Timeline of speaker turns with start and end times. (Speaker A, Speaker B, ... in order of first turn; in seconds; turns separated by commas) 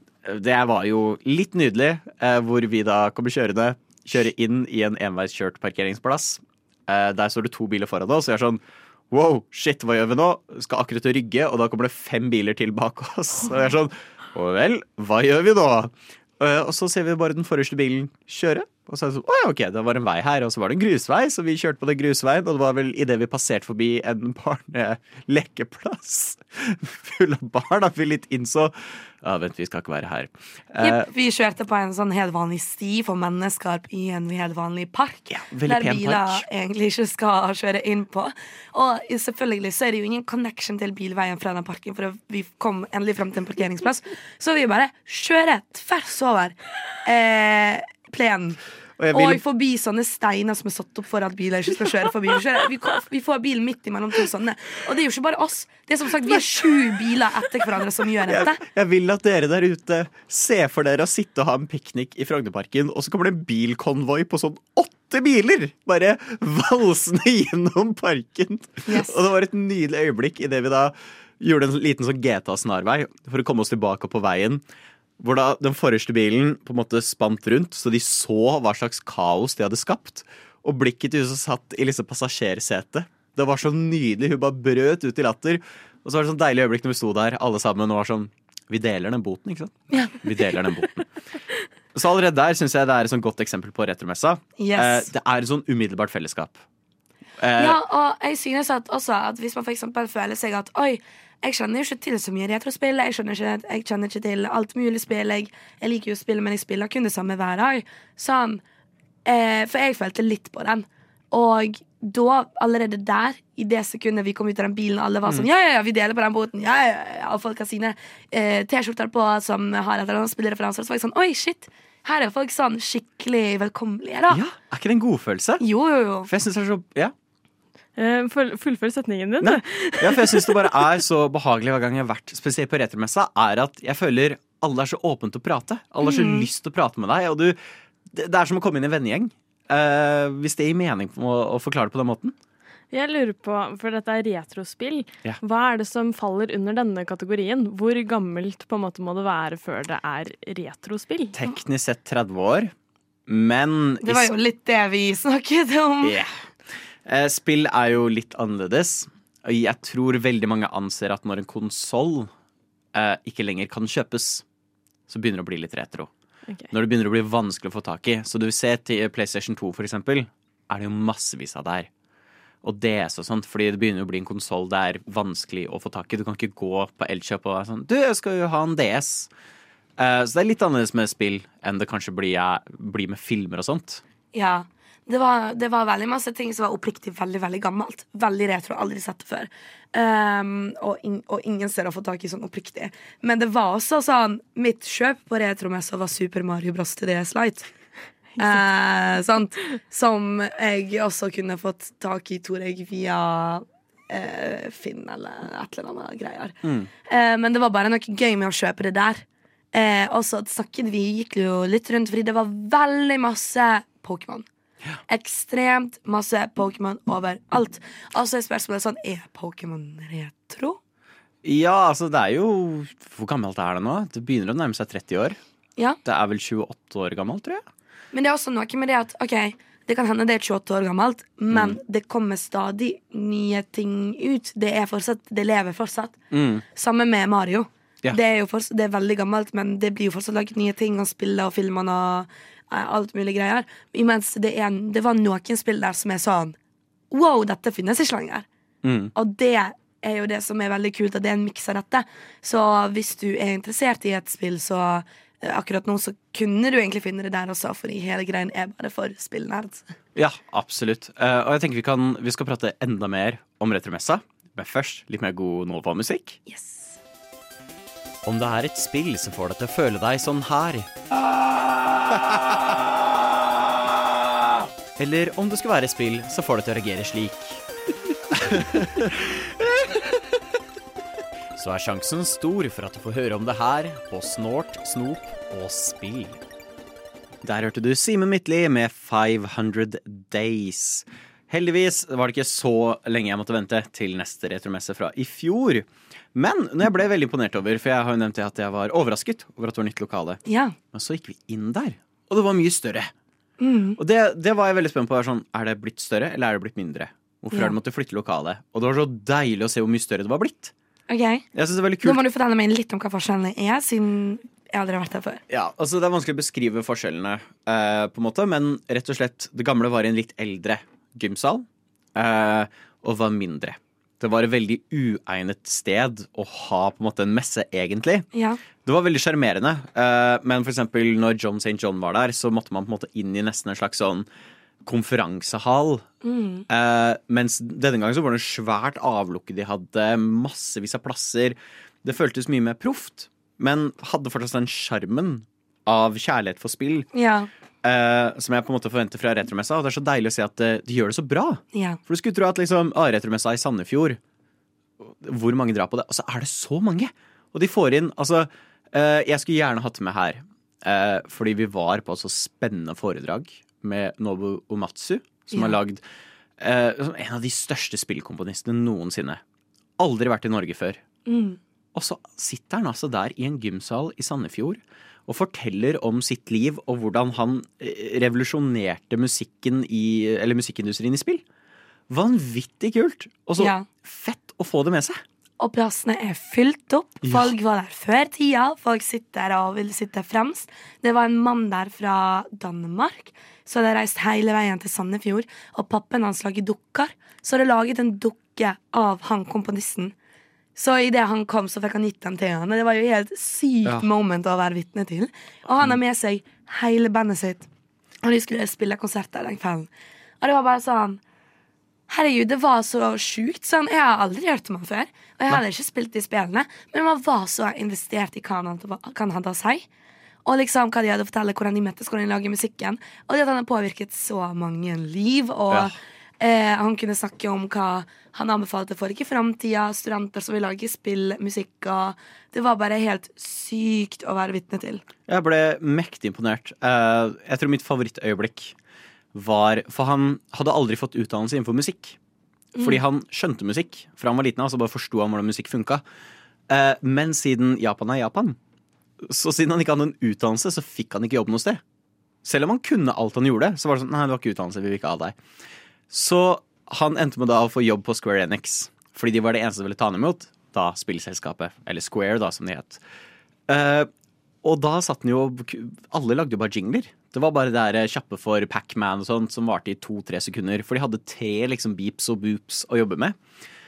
Speaker A: 0.2-31.1, Speaker B: 30.8-48.6, Speaker A: 35.3-36.4, Speaker A: 49.0-49.4, Speaker B: 49.1-58.6, Speaker A: 58.3-74.6, Speaker B: 68.9-69.2, Speaker A: 75.2-91.0, Speaker A: 91.9-96.6, Speaker B: 94.6-95.1, Speaker A: 97.4-97.8, Speaker B: 97.6-108.6, Speaker B: 109.2-124.4, Speaker A: 124.3-125.6, Speaker B: 125.6-126.3, Speaker A: 126.2-127.1, Speaker C: 128.0-130.7, Speaker A: 129.4-142.3, Speaker B: 136.0-136.5, Speaker C: 142.9-151.3, Speaker A: 151.3-152.7, Speaker A: 153.3-154.3, Speaker B: 154.0-156.2, Speaker A: 156.0-156.3, Speaker A: 157.0-162.3, Speaker A: 162.9-164.4, Speaker A: 165.1-166.1, Speaker A: 166.7-171.9, Speaker A: 172.6-179.3, Speaker A: 180.0-184.0, Speaker B: 184.3-197.7, Speaker B: 198.4-214.5, Speaker A: 206.6-206.9, Speaker B: 215.1-220.8, Speaker A: 221.4-225.4, Speaker A: 226.0-227.6, Speaker B: 228.1-236.2, Speaker A: 231.5-231.8, Speaker A: 236.3-236.6, Speaker B: 236.7-246.6, Speaker B: 247.1-248.4, Speaker A: 248.8-249.1, Speaker B: 249.1-259.9, Speaker A: 260.1-266.4, Speaker B: 266.5-267.0, Speaker A: 268.2-270.9, Speaker A: 275.0-277.6, Speaker A: 278.3-279.9, Speaker A: 281.6-286.4, Speaker A: 287.4-300.4, Speaker B: 300.4-300.8, Speaker A: 300.9-303.1, Speaker B: 303.6-304.0, Speaker A: 304.0-310.7, Speaker B: 311.1-311.4, Speaker A: 311.5-312.2, Speaker B: 312.0-315.4, Speaker A: 315.5-328.3, Speaker B: 328.3-328.6, Speaker A: 328.8-334.3, Speaker A: 334.8-336.1, Speaker B: 336.2-336.6, Speaker A: 336.7-347.1, Speaker B: 347.1-347.5, Speaker A: 347.8-354.2, Speaker B: 351.7-352.0, Speaker A: 355.0-366.0, Speaker B: 365.5-365.8, Speaker A: 366.6-369.4, Speaker A: 370.0-371.0, Speaker B: 371.2-371.6, Speaker A: 371.9-381.4, Speaker A: 382.1-385.2, Speaker B: 383.6-383.9, Speaker B: 385.6-400.1, Speaker A: 387.2-387.5, Speaker B: 400.8-407.7, Speaker B: 408.2-409.9, Speaker B: 410.4-411.2, Speaker B: 412.1-419.9, Speaker B: 420.4-435.0, Speaker A: 435.3-438.7, Speaker A: 439.3-442.2, Speaker B: 442.7-443.0, Speaker A: 442.8-446.0, Speaker A: 446.7-448.6, Speaker A: 449.2-451.8, Speaker A: 452.4-455.4, Speaker A: 456.1-463.0, Speaker A: 463.7-464.1, Speaker A: 464.6-473.4